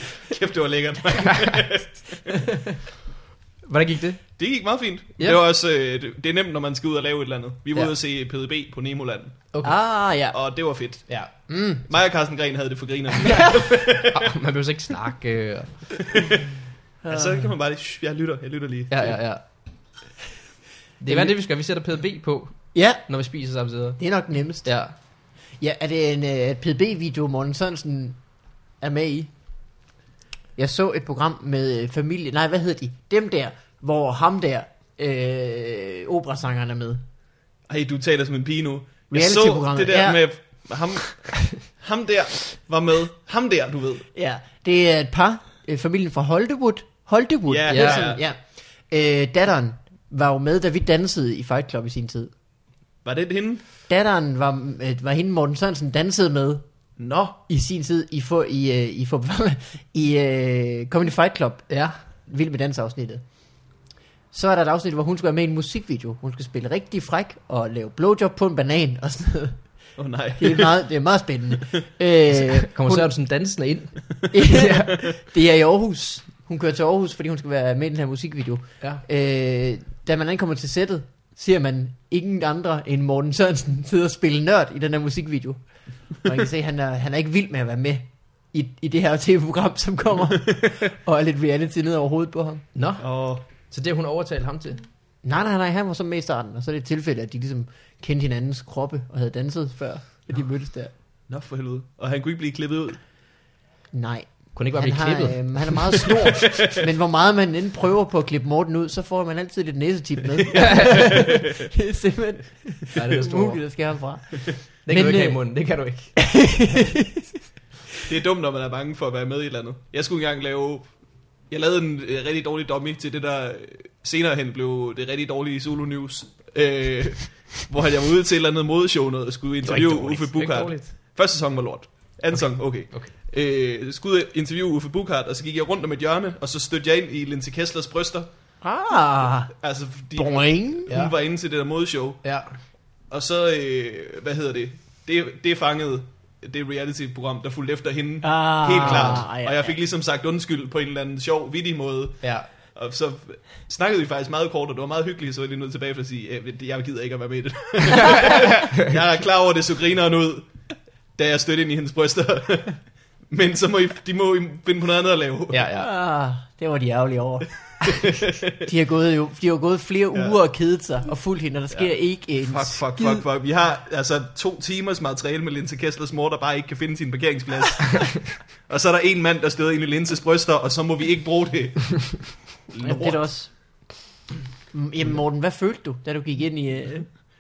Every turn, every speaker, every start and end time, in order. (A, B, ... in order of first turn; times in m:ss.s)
0:00.3-0:02.3 A
0:03.6-0:04.4 B
0:04.4-0:09.6 A
0:09.6-0:10.4 C
0:10.3-0:14.2 A
0:11.5-0:11.8 C
0:14.1-0:16.0 B
0:17.0-0:17.5 C
0:17.1-0:19.2 A
0:18.9-0:19.4 B
0:21.0-0:24.9 B
0:21.1-0:21.4 C
0:22.7-0:23.1 C
0:24.0-0:24.7 C
0:25.5-0:28.2 C
0:28.8-0:29.3 C
0:30.6-0:37.0 C
0:37.7-0:44.1 A
0:39.1-0:40.6 C
0:44.1-0:52.3 C
0:47.5-0:48.2 A
0:47.7-0:48.2 B
0:53.0-0:53.6 A
0:53.9-0:56.6 C
0:57.0-0:57.4 A
0:57.5-1:01.7 C
1:01.7-1:02.0 B
1:02.2-1:03.2 C
1:04.3-1:09.7 C
1:10.0-1:10.8 A
1:10.4-1:13.1 C
1:12.5-1:14.9 B
1:14.3-1:32.6 C
1:32.7-1:34.8 B
1:33.0-1:33.4 A
1:35.2-1:40.9 C
1:41.3-1:43.0 A
1:43.9-1:57.4 C
1:44.5-1:45.8 B
1:50.5-1:51.3 B
1:52.9-1:53.8 B
1:54.8-1:56.2 B
1:58.1-2:18.3 A
2:09.6-2:10.9 B
2:18.6-2:19.5 C
2:19.6-2:22.3 A
2:20.1-2:20.9 C
2:20.9-2:21.1 B
2:22.2-2:22.5 B
2:23.1-2:45.6 A
2:28.2-2:29.8 C
2:28.8-2:29.2 B
2:32.2-2:32.5 B
2:38.0-2:38.8 B
2:45.5-2:45.9 B
2:45.8-2:47.5 C
2:48.6-2:53.2 C
2:51.7-3:03.5 A
3:02.8-3:03.9 C
3:04.7-3:07.1 C